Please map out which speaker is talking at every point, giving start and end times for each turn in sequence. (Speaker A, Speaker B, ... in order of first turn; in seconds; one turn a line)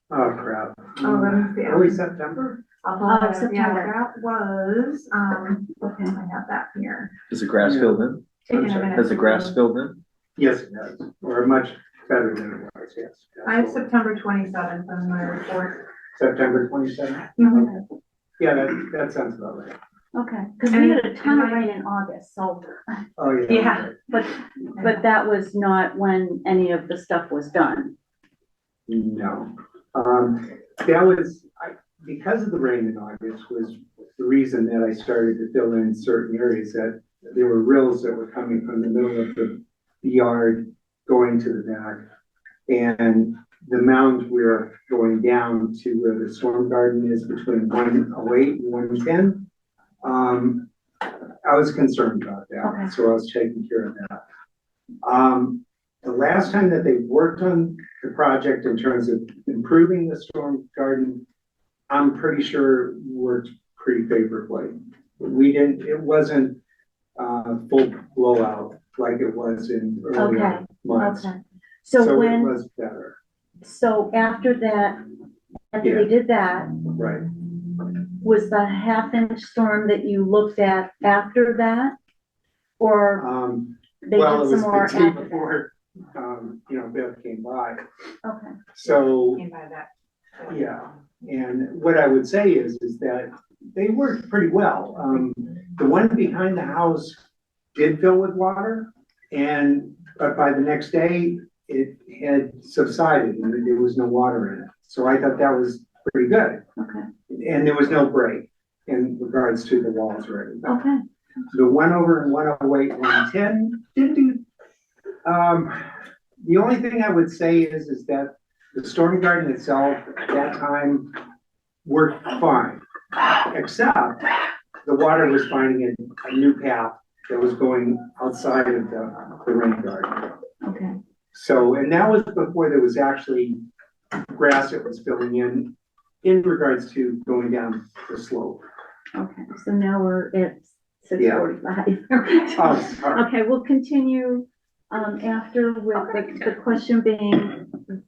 Speaker A: 0.1-2.6
Speaker B: 1.0-2.0
Speaker B: 2.8-7.1
Speaker C: 3.1-3.9
Speaker C: 5.8-6.2
Speaker D: 7.3-10.0
Speaker A: 7.6-8.0
Speaker B: 8.5-9.6
Speaker A: 10.4-13.8
Speaker B: 13.5-15.8
Speaker A: 16.2-17.8
Speaker C: 17.4-17.8
Speaker A: 18.4-19.8
Speaker C: 20.1-23.0
Speaker B: 20.7-21.7
Speaker A: 23.2-23.9
Speaker B: 23.5-23.9
Speaker C: 24.1-27.9
Speaker A: 28.9-42.0
Speaker A: 42.7-49.5
Speaker A: 50.0-50.7
Speaker A: 51.4-54.2
Speaker C: 52.6-52.9
Speaker A: 55.0-61.2
Speaker A: 61.9-66.6
Speaker A: 67.2-71.3
Speaker C: 70.2-72.5
Speaker A: 72.0-73.2
Speaker C: 73.6-75.0
Speaker C: 75.7-76.8
Speaker A: 75.8-76.1
Speaker A: 77.0-77.3
Speaker C: 78.2-82.0
Speaker C: 82.8-83.2
Speaker A: 83.2-87.8
Speaker C: 84.0-85.4
Speaker C: 88.2-88.6
Speaker A: 88.7-89.4
Speaker B: 89.3-90.6
Speaker A: 90.5-97.2
Speaker A: 97.7-106.6
Speaker C: 106.8-107.1
Speaker A: 107.3-110.8
Speaker C: 110.7-111.0
Speaker A: 111.5-114.4
Speaker A: 115.2-121.2
Speaker A: 121.8-124.3
Speaker A: 124.8-130.4
Speaker C: 130.6-131.0
Speaker A: 131.3-133.6
Speaker A: 134.3-138.6
Speaker C: 139.1-147.7
Speaker A: 141.2-141.5
Speaker A: 142.6-143.3
Speaker B: 145.9-146.6